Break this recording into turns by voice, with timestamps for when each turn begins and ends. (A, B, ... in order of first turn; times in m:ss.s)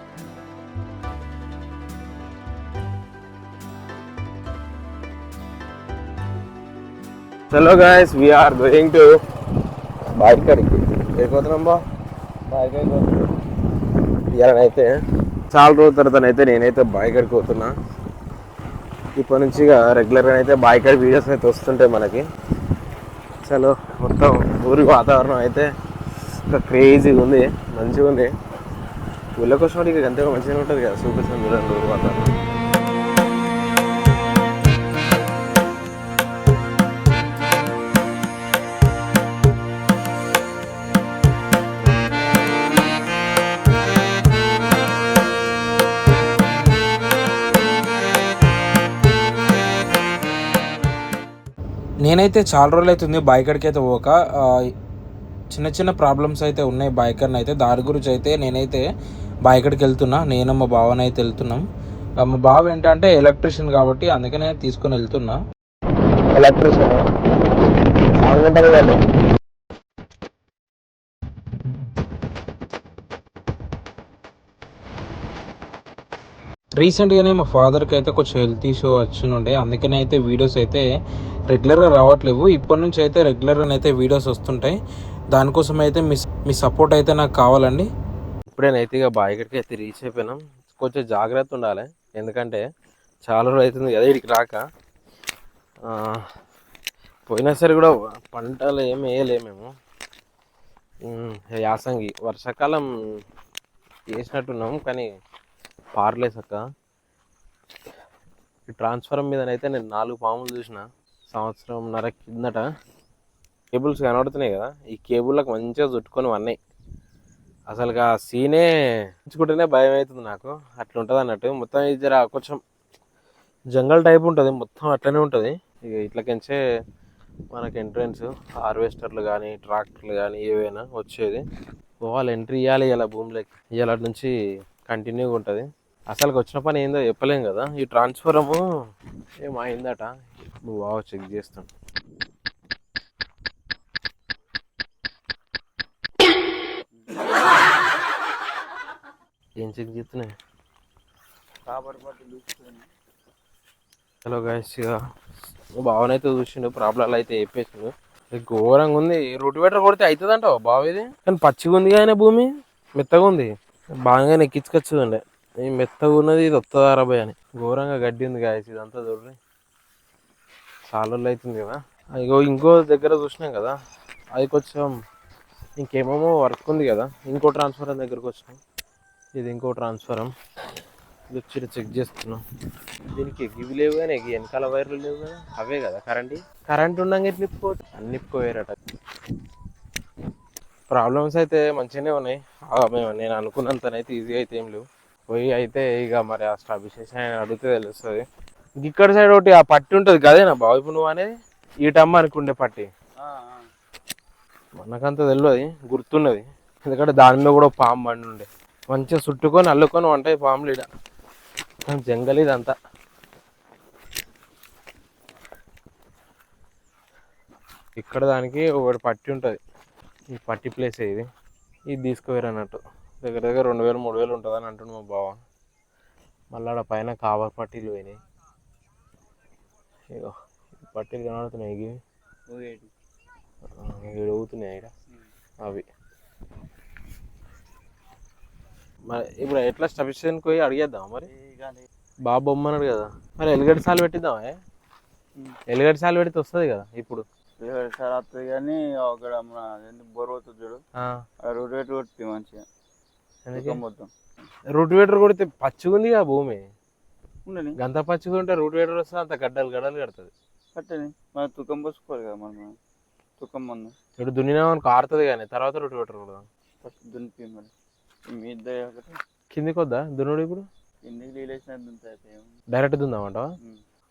0:07.5-0:09.1 A
0:10.2-0:11.8 A
0:12.5-0:13.3 A
0:14.3-0:14.9 A
0:15.5-0:17.7 A
0:19.2-0:22.2 A
0:23.5-0:25.7 A
0:26.5-0:28.3 A
0:29.4-0:32.3 A
0:52.0-0:54.1 B
0:55.5-0:58.8 B
0:59.5-1:01.6 B
1:02.2-1:05.4 B
1:06.3-1:07.0 A
1:08.2-1:09.0 A
1:16.8-1:20.8 B
1:21.5-1:24.7 B
1:25.3-1:27.8 B
1:28.6-1:32.6 A
1:33.3-1:34.6 A
1:35.9-1:36.2 A
1:37.3-1:39.7 A
1:41.1-1:42.8 A
1:44.2-1:45.1 A
1:46.0-1:46.6 A
1:48.7-1:52.6 A
1:53.7-1:56.6 A
1:57.7-1:58.7 A
1:59.3-2:02.6 A
2:03.7-2:06.6 A
2:07.5-2:11.4 A
2:12.0-2:14.3 A
2:14.9-2:18.6 A
2:19.4-2:20.1 A
2:20.6-2:21.7 A
2:29.6-2:30.3 A
2:31.7-2:32.9 C
2:34.2-2:35.0 A
2:35.8-2:43.5 A
2:44.1-2:49.4 A
2:50.9-2:53.7 A
2:54.4-2:54.9 A
2:55.8-2:58.6 A
2:59.4-3:00.3 A
3:01.3-3:02.4 A
3:03.1-3:08.8 A
3:10.9-3:18.2 A
3:18.8-3:21.3 A
3:21.8-3:22.9 A
3:23.2-3:23.6 C
3:24.8-3:30.9 A
3:31.9-3:32.8 A
3:38.0-3:39.6 A
3:40.3-3:41.2 A
3:41.9-3:45.4 A
3:46.5-3:48.2 A
3:50.9-3:52.0 A
3:52.5-3:52.9 C
3:53.8-3:54.9 A
3:59.1-4:01.3 A
4:01.3-4:01.9 C
4:02.3-4:04.5 A
4:05.7-4:07.2 A
4:07.6-4:10.8 C
4:11.5-4:12.6 C
4:13.5-4:13.8 A
4:13.6-4:14.1 C
4:14.7-4:16.6 A
4:17.5-4:17.7 C
4:17.8-4:20.3 A
4:20.8-4:22.7 C
4:23.4-4:23.9 C
4:24.2-4:26.4 A
4:26.8-4:27.7 C
4:28.3-4:29.2 C
4:29.5-4:30.6 A
4:31.0-4:32.5 C
4:32.7-4:33.4 A